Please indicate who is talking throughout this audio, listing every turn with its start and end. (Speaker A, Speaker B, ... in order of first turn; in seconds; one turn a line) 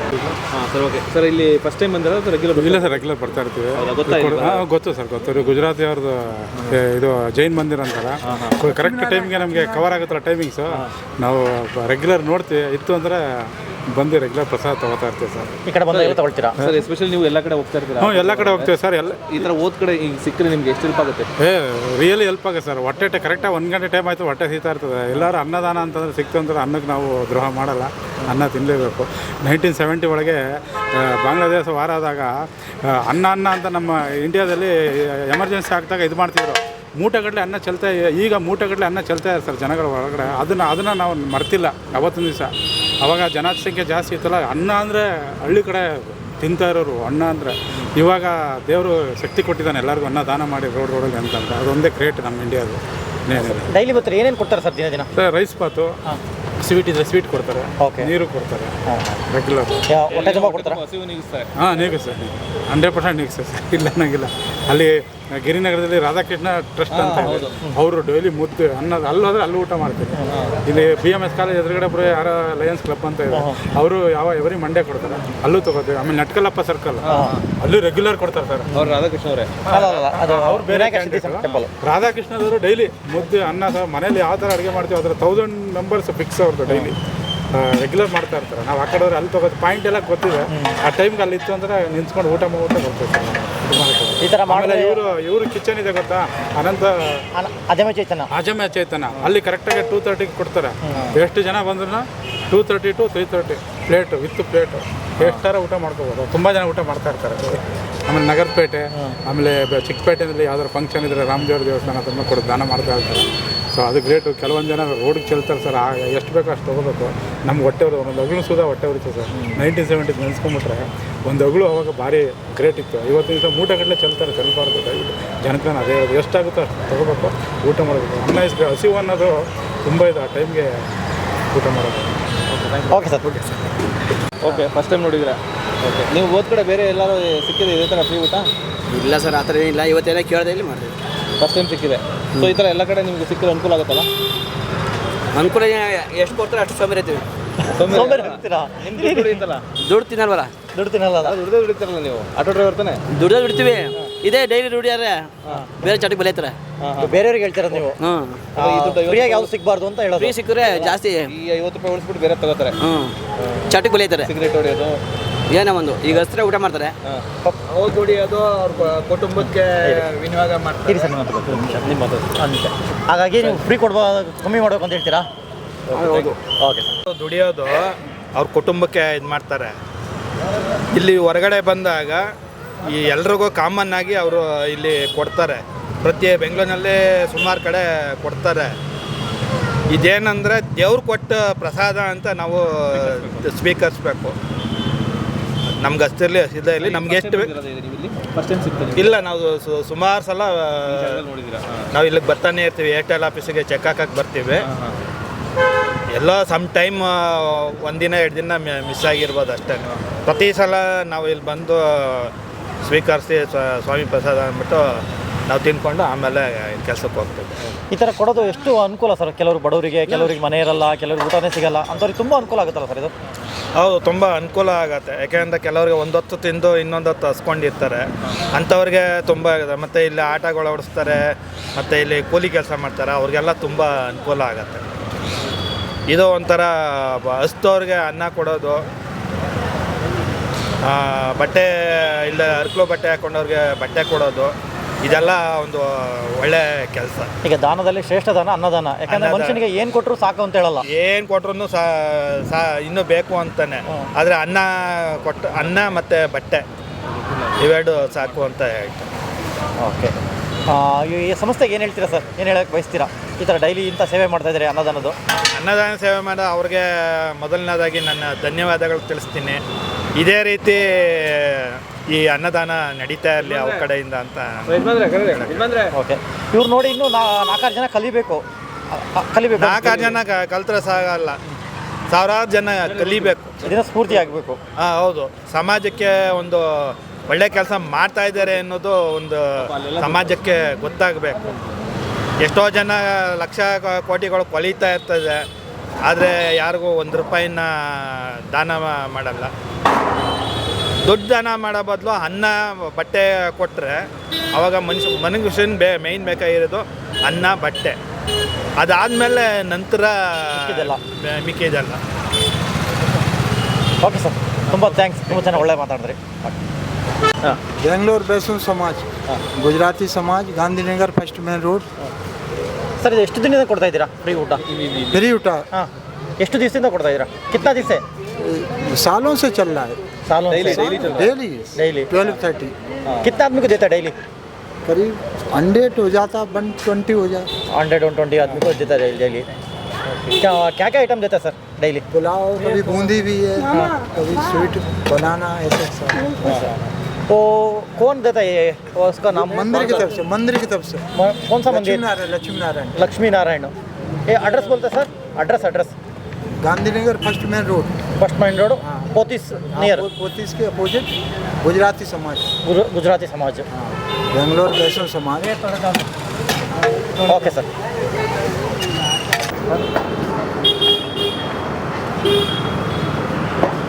Speaker A: 0.5-3.0
Speaker B: 2.5-15.5
Speaker A: 3.8-4.6
Speaker A: 8.3-8.6
Speaker C: 8.7-10.0
Speaker D: 15.7-16.6
Speaker A: 15.9-18.7
Speaker B: 18.0-19.2
Speaker A: 19.3-21.3
Speaker B: 21.4-30.4
Speaker B: 30.9-32.3
Speaker B: 32.8-53.7
Speaker D: 53.4-55.1
Speaker B: 55.1-55.9
Speaker B: 56.6-58.7
Speaker D: 57.8-58.1
Speaker D: 58.9-59.2
Speaker B: 59.3-59.9
Speaker D: 59.9-60.8
Speaker A: 60.1-61.5
Speaker B: 61.6-78.8
Speaker A: 66.9-67.6
Speaker D: 67.2-67.8
Speaker A: 70.3-70.6
Speaker D: 73.3-73.6
Speaker A: 77.0-77.4
Speaker D: 77.1-77.3
Speaker A: 78.7-79.5
Speaker B: 79.7-87.0
Speaker D: 79.7-81.7
Speaker B: 87.5-97.2
Speaker D: 90.5-90.8
Speaker D: 94.2-95.0
Speaker D: 97.3-98.3
Speaker B: 98.3-130.8
Speaker D: 100.8-101.1
Speaker D: 119.3-119.6
Speaker B: 131.5-132.1
Speaker A: 132.5-133.4
Speaker D: 132.9-133.3
Speaker A: 134.4-138.5
Speaker E: 138.9-140.9
Speaker A: 141.4-144.1
Speaker E: 145.3-147.2
Speaker D: 147.7-149.4
Speaker A: 147.7-149.7
Speaker E: 149.8-150.5
Speaker D: 150.7-151.3
Speaker A: 151.2-153.0
Speaker E: 153.1-156.6
Speaker A: 156.8-157.2
Speaker D: 157.0-158.0
Speaker E: 158.0-158.4
Speaker A: 158.5-159.5
Speaker D: 158.6-160.4
Speaker E: 160.2-161.3
Speaker A: 160.7-162.8
Speaker E: 162.8-163.1
Speaker A: 163.4-165.0
Speaker E: 163.7-164.3
Speaker E: 165.5-166.9
Speaker F: 167.7-171.2
Speaker D: 170.9-171.8
Speaker A: 171.4-172.3
Speaker D: 172.4-175.3
Speaker A: 175.9-176.3
Speaker F: 175.9-176.3
Speaker D: 176.0-176.9
Speaker F: 177.1-179.7
Speaker F: 180.9-182.2
Speaker F: 182.8-188.7
Speaker F: 189.9-194.3
Speaker A: 192.9-193.4
Speaker F: 195.7-197.5
Speaker A: 196.8-199.2
Speaker F: 198.9-201.1
Speaker A: 200.8-201.9
Speaker F: 201.9-204.7
Speaker A: 204.6-204.9
Speaker F: 206.1-212.3
Speaker F: 212.8-217.7
Speaker D: 217.9-223.1
Speaker F: 223.8-234.8
Speaker F: 236.1-238.8
Speaker F: 240.8-247.3
Speaker D: 247.4-250.8
Speaker F: 249.1-249.6
Speaker F: 250.9-256.6
Speaker F: 257.6-259.1
Speaker D: 259.8-260.1
Speaker D: 260.7-265.2
Speaker F: 265.5-269.6
Speaker F: 270.2-275.6
Speaker A: 273.4-273.8
Speaker A: 274.7-275.9
Speaker D: 275.9-280.1
Speaker F: 279.6-281.4
Speaker F: 282.1-283.5
Speaker A: 282.9-283.7
Speaker D: 283.6-284.6
Speaker F: 284.8-291.4
Speaker A: 289.6-290.3
Speaker F: 292.4-295.4
Speaker F: 296.1-299.5
Speaker F: 301.0-308.0
Speaker F: 308.8-312.0
Speaker D: 310.6-311.0
Speaker D: 314.0-316.6
Speaker A: 314.7-315.0
Speaker C: 317.8-321.9
Speaker D: 323.0-324.6
Speaker A: 324.6-325.3
Speaker C: 325.1-325.7
Speaker D: 326.4-328.0
Speaker C: 328.4-330.0
Speaker D: 330.3-331.0
Speaker A: 330.5-331.3
Speaker C: 330.6-332.7
Speaker D: 331.7-332.1
Speaker D: 333.2-334.1
Speaker C: 334.8-337.5
Speaker D: 337.7-339.4
Speaker D: 340.3-342.0
Speaker C: 342.1-346.4
Speaker A: 346.4-346.7
Speaker D: 347.3-350.1
Speaker C: 349.3-351.1
Speaker D: 351.1-352.0
Speaker C: 351.6-353.1
Speaker D: 352.9-353.7
Speaker D: 354.3-355.9
Speaker C: 356.6-358.0
Speaker D: 358.2-360.1
Speaker C: 359.7-362.4
Speaker D: 362.6-363.7
Speaker C: 363.7-365.6
Speaker D: 365.4-366.1
Speaker D: 367.2-367.7